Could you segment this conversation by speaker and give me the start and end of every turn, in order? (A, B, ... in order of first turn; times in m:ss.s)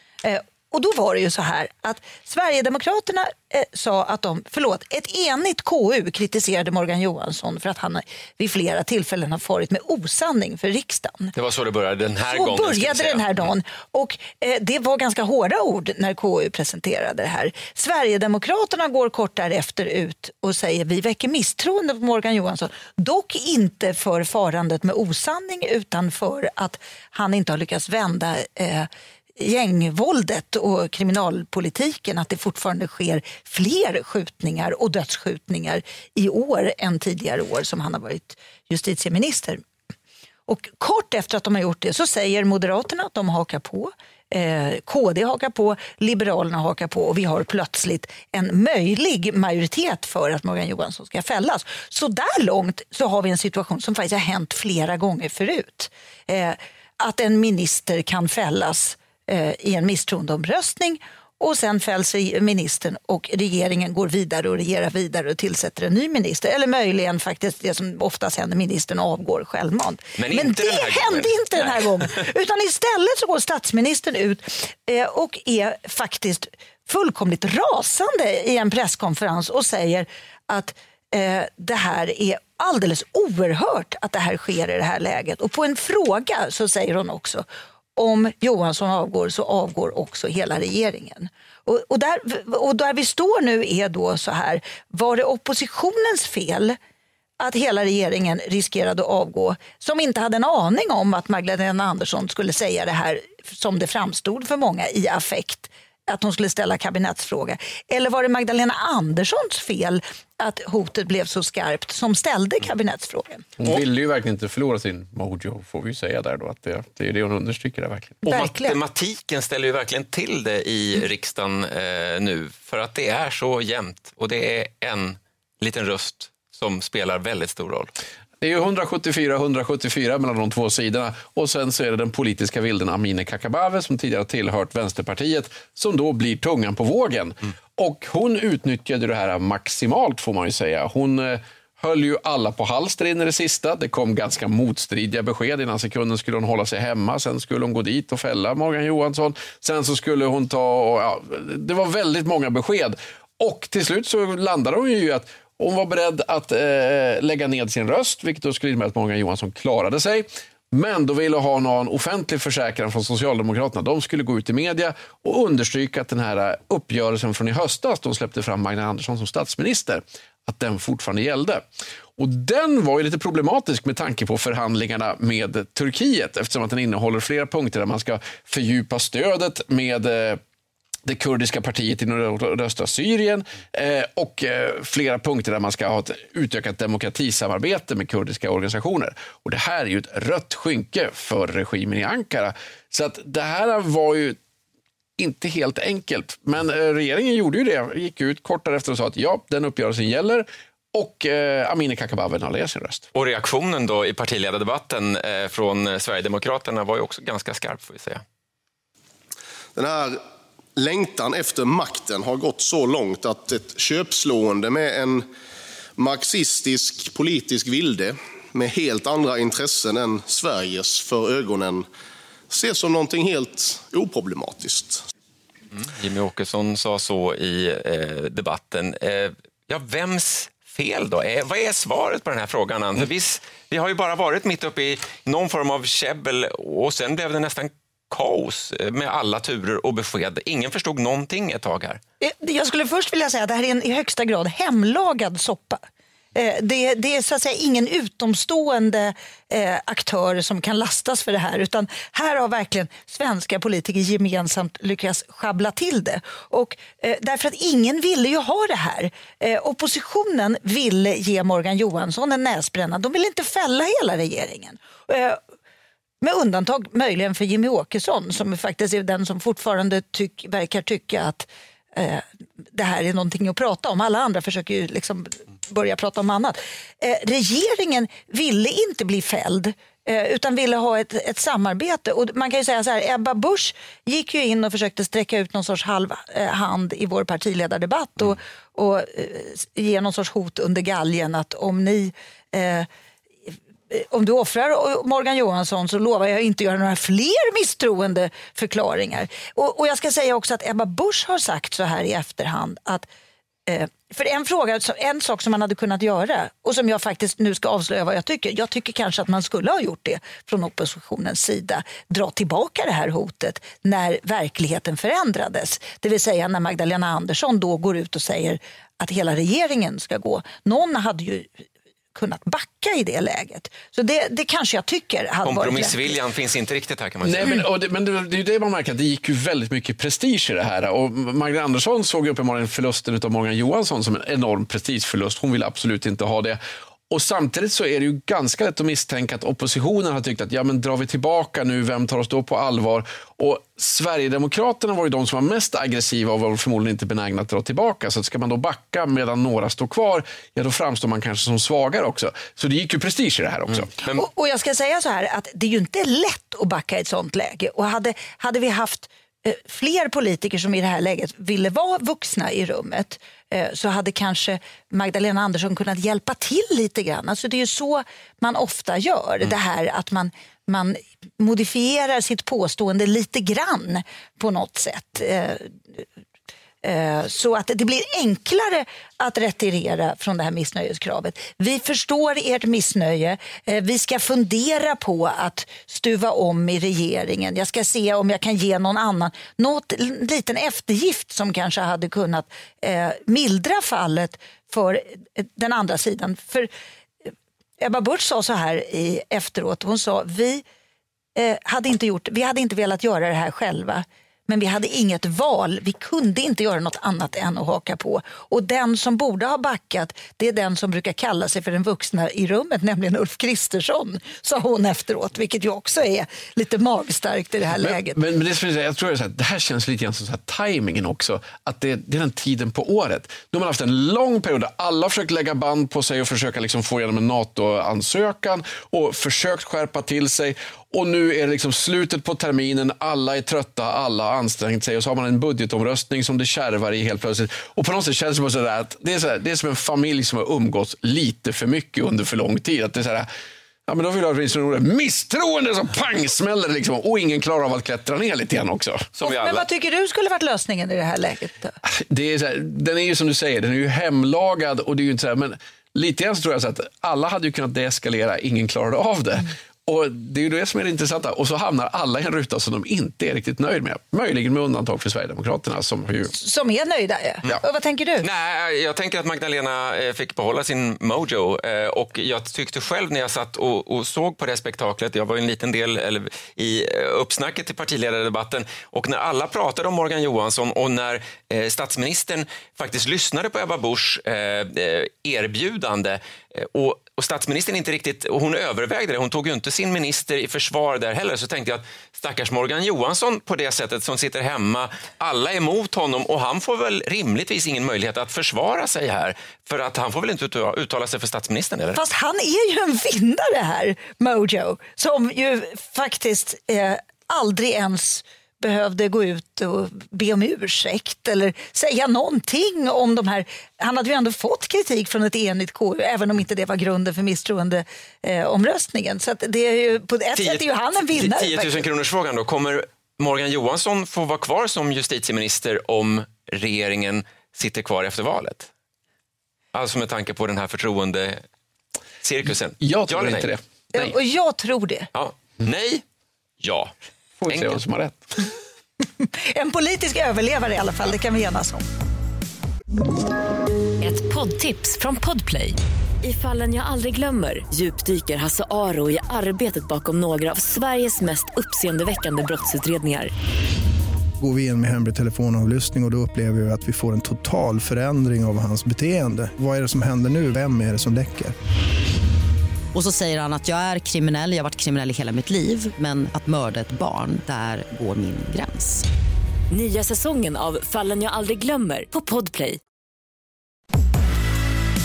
0:00.2-0:11.3 A
0:11.3-0:13.4 B
0:12.3-0:39.6 A
0:40.5-1:27.4 A
1:10.2-1:12.0 B
1:28.0-1:36.8 A
1:37.4-1:53.5 A
1:53.6-1:58.2 C
1:58.2-1:58.8 A
1:58.2-2:07.9 B
2:08.4-2:51.6 C
2:52.2-3:00.4 C
3:01.0-3:14.4 C
3:15.2-3:23.1 C
3:23.1-3:28.2 B
3:29.7-3:30.2 D
3:30.8-3:35.3 D
3:36.0-3:41.8 D
3:42.5-3:45.0 D
3:45.7-4:02.0 B
4:02.2-4:05.8 A
4:06.3-4:25.4 A
4:26.2-4:52.9 A
4:53.9-5:03.1 A
5:03.7-5:21.6 A
5:22.1-5:26.1 A
5:25.4-5:27.6 B
5:27.2-5:53.9 C
5:53.7-5:54.2 B
5:54.1-6:16.0 A
6:16.8-6:36.7 A
6:37.2-6:40.6 A
6:41.3-6:58.2 A
6:57.8-7:23.3 C
7:23.9-7:29.1 C
7:29.2-7:29.6 B
7:29.2-7:31.8 A
7:31.8-7:46.3 C
7:46.3-7:48.2 A
7:48.2-8:22.0 B
8:22.0-8:41.8 A
8:40.3-8:48.7 B
8:49.7-8:51.4 B
8:52.2-8:53.5 B
8:52.8-8:54.1 C
8:53.9-8:55.1 A
8:55.1-8:56.0 B
8:56.6-8:56.9 B
8:57.4-8:58.3 C
8:57.5-8:57.8 B
8:59.2-9:01.8 A
9:04.0-9:13.3 E
9:14.4-9:21.5 F
9:22.9-9:29.0 G
9:29.7-9:32.8 E